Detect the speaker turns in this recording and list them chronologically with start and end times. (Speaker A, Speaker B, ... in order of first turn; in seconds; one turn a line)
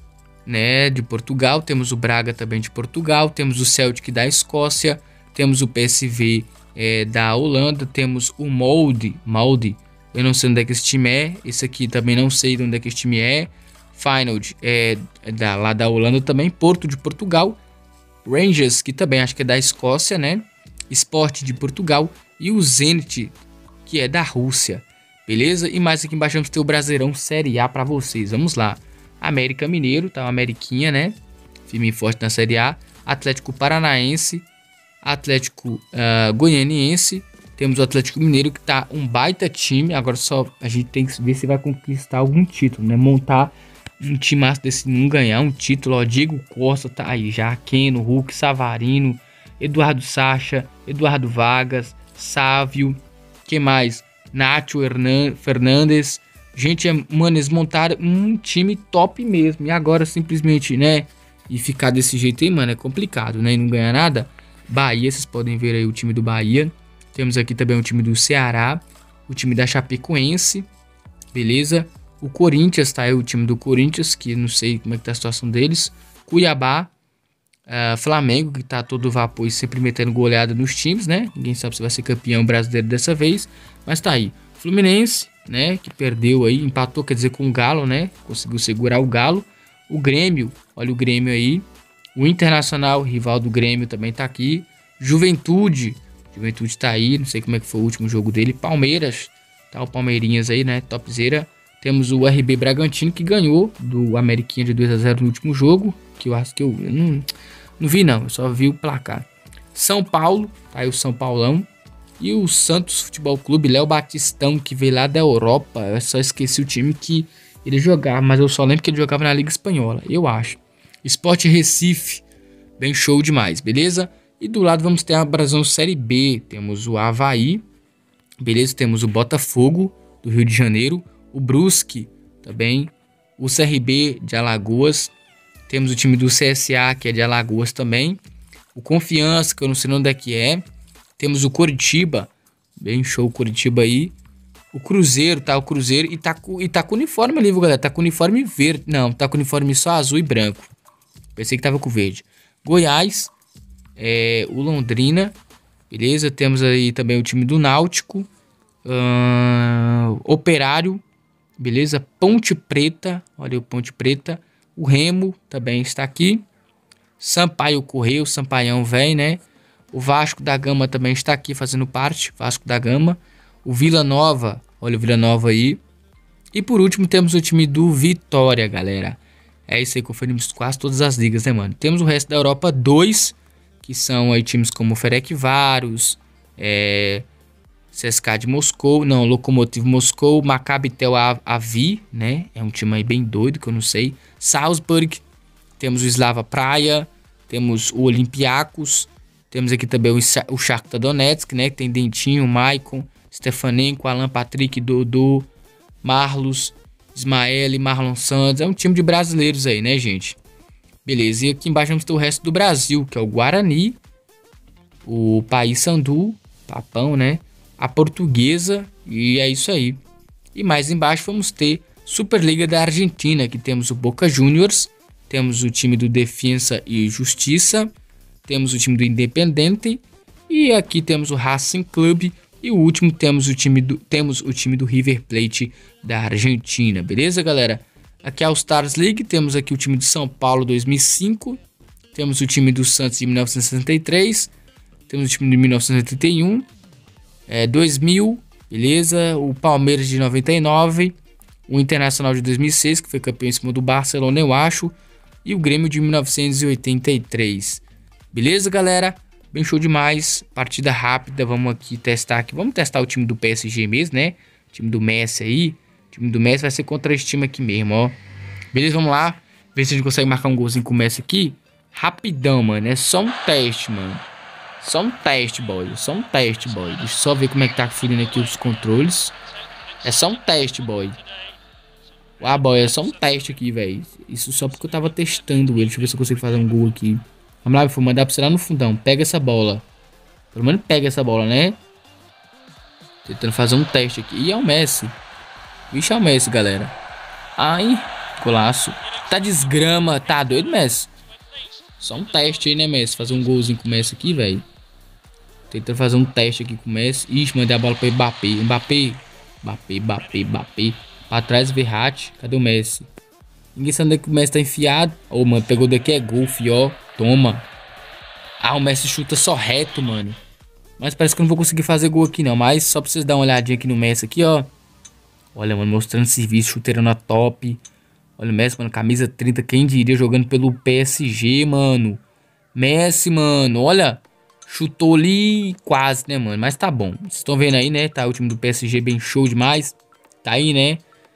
Speaker A: 0.5-17.6
Speaker A: 18.2-31.1
Speaker A: 31.7-34.5
Speaker A: 35.0-70.7
Speaker A: 71.3-76.9
Speaker A: 77.7-91.6
Speaker A: 92.2-107.3
Speaker A: 107.8-111.7
Speaker A: 112.2-122.2
Speaker A: 122.8-127.6
Speaker A: 128.4-135.1
Speaker A: 135.7-138.2
Speaker A: 138.7-140.6
Speaker A: 141.2-144.1
Speaker A: 144.7-150.7
Speaker A: 151.3-153.3
Speaker A: 154.0-155.3
Speaker A: 155.9-158.3
Speaker A: 158.8-161.0
Speaker A: 161.6-166.4
Speaker A: 167.2-175.8
Speaker A: 176.5-187.2
Speaker A: 187.9-195.2
Speaker A: 195.8-205.5
Speaker A: 206.0-210.4
Speaker A: 211.0-214.0
Speaker A: 215.0-220.0
Speaker A: 220.5-227.9
Speaker A: 228.4-241.6
Speaker A: 242.1-244.5
Speaker A: 245.1-246.7
Speaker A: 247.5-251.2
Speaker A: 251.7-268.2
Speaker A: 268.7-274.2
Speaker A: 274.8-279.3
Speaker A: 280.0-281.2
Speaker A: 282.4-289.8
Speaker A: 290.5-291.8
Speaker A: 293.2-295.1
Speaker A: 295.9-297.0
Speaker A: 297.6-301.1
Speaker A: 302.0-304.6
Speaker A: 305.7-313.1
Speaker A: 313.8-317.6
Speaker A: 318.6-320.4
Speaker A: 321.0-324.7
Speaker A: 325.5-327.8
Speaker A: 328.4-332.2
Speaker A: 332.7-341.0